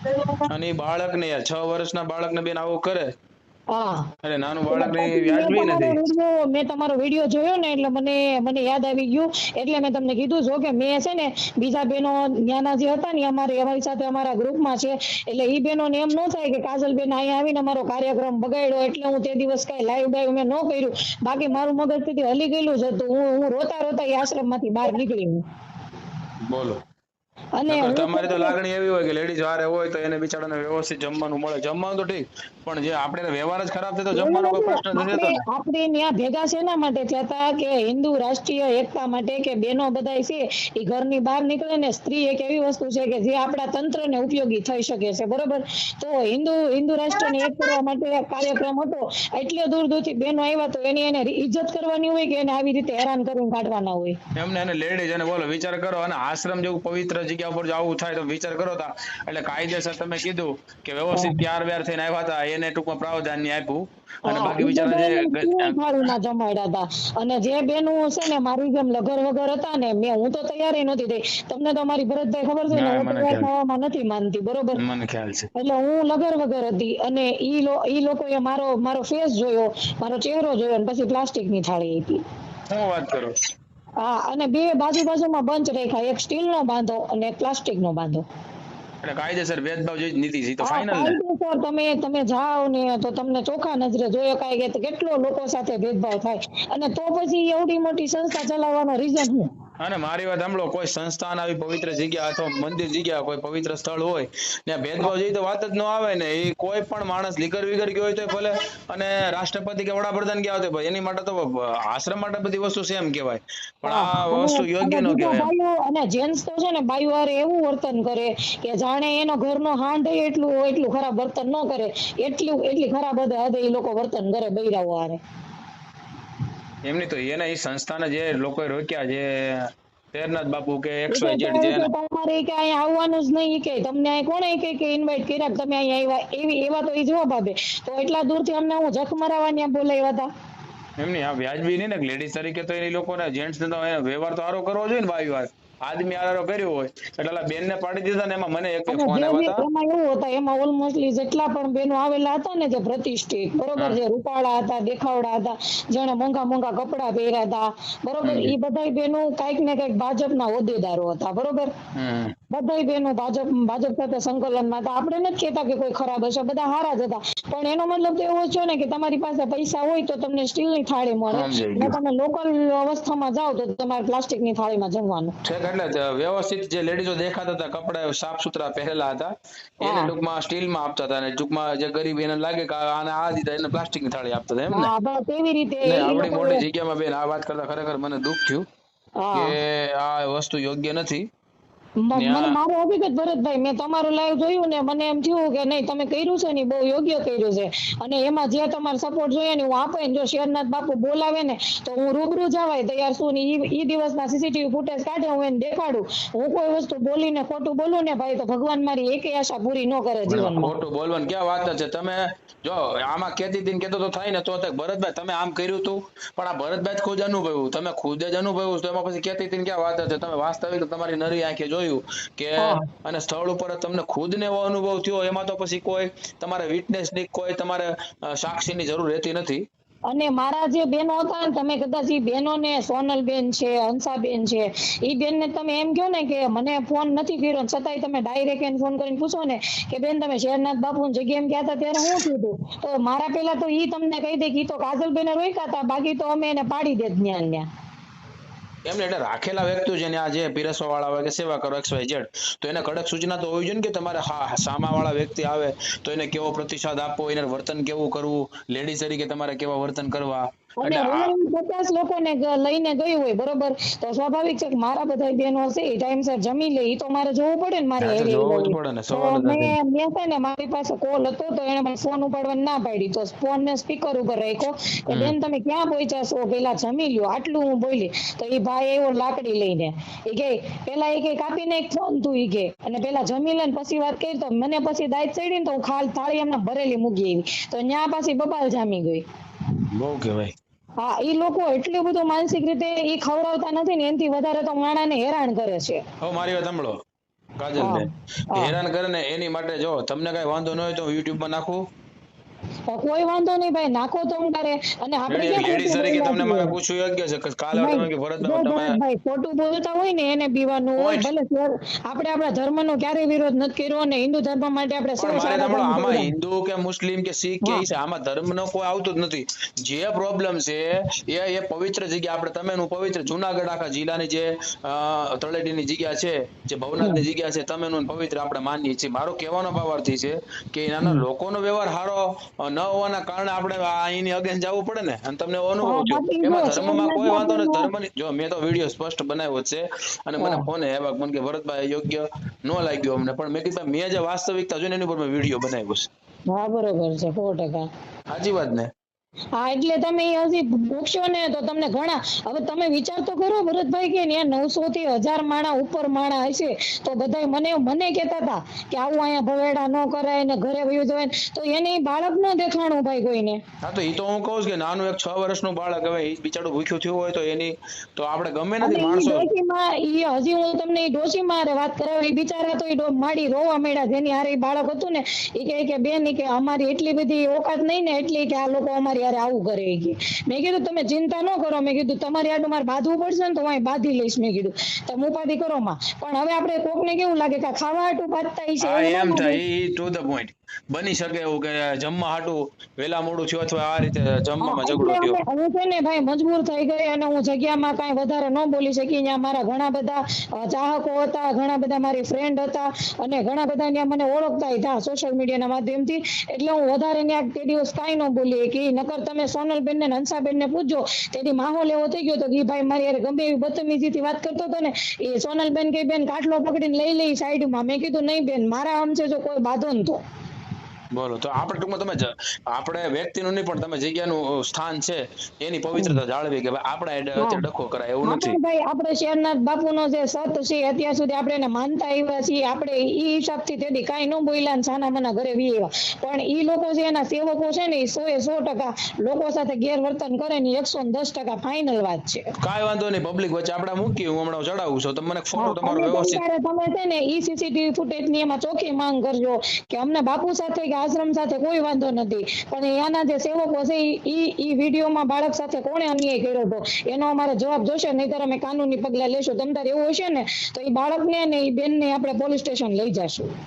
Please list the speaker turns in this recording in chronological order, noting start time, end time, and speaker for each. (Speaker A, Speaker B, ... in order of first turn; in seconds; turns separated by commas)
Speaker A: 0.2-3.1, Speaker B: 3.7-4.1, Speaker A: 4.2-6.0, Speaker B: 4.7-25.4, Speaker A: 26.5-26.8, Speaker B: 27.6-28.6, Speaker A: 27.7-35.4, Speaker B: 34.1-54.2, Speaker A: 54.4-65.8, Speaker B: 64.3-74.8, Speaker A: 72.7-73.5, Speaker A: 74.8-75.5, Speaker B: 75.5-82.2, Speaker A: 82.7-83.3, Speaker B: 84.0-88.3, Speaker A: 89.0-91.2, Speaker B: 90.6-99.5, Speaker A: 99.8-115.5, Speaker B: 113.9-125.2, Speaker A: 126.8-131.9, Speaker B: 131.1-140.3, Speaker A: 141.0-149.7, Speaker B: 148.9-161.7, Speaker A: 158.2-158.5, Speaker A: 162.0-162.3, Speaker B: 162.5-175.3, Speaker A: 171.3-172.0, Speaker A: 175.4-179.3, Speaker B: 179.8-180.1, Speaker A: 179.8-184.9, Speaker B: 184.7-186.6, Speaker A: 185.9-188.7, Speaker B: 189.2-189.5, Speaker A: 189.3-191.3, Speaker B: 192.1-210.7, Speaker A: 192.2-192.6, Speaker A: 210.3-229.6, Speaker B: 222.6-222.8, Speaker B: 230.1-247.7, Speaker A: 248.9-261.3, Speaker B: 260.8-289.2, Speaker A: 268.0-269.8, Speaker A: 275.1-275.4, Speaker A: 289.9-290.6, Speaker B: 291.0-296.0, Speaker A: 296.2-297.0, Speaker A: 297.6-301.8, Speaker B: 297.8-298.8, Speaker B: 302.9-306.7, Speaker A: 305.3-309.0, Speaker B: 307.7-316.3, Speaker A: 311.0-311.3, Speaker A: 315.2-346.1, Speaker B: 335.8-337.9, Speaker B: 340.4-340.7, Speaker B: 346.5-347.9, Speaker A: 348.3-348.9, Speaker B: 349.6-363.6, Speaker A: 363.8-369.5, Speaker B: 368.8-389.6, Speaker A: 388.8-395.4, Speaker B: 394.6-420.2, Speaker A: 421.1-428.6, Speaker B: 427.4-427.6, Speaker B: 428.2-442.5, Speaker A: 442.6-446.4, Speaker B: 445.6-463.5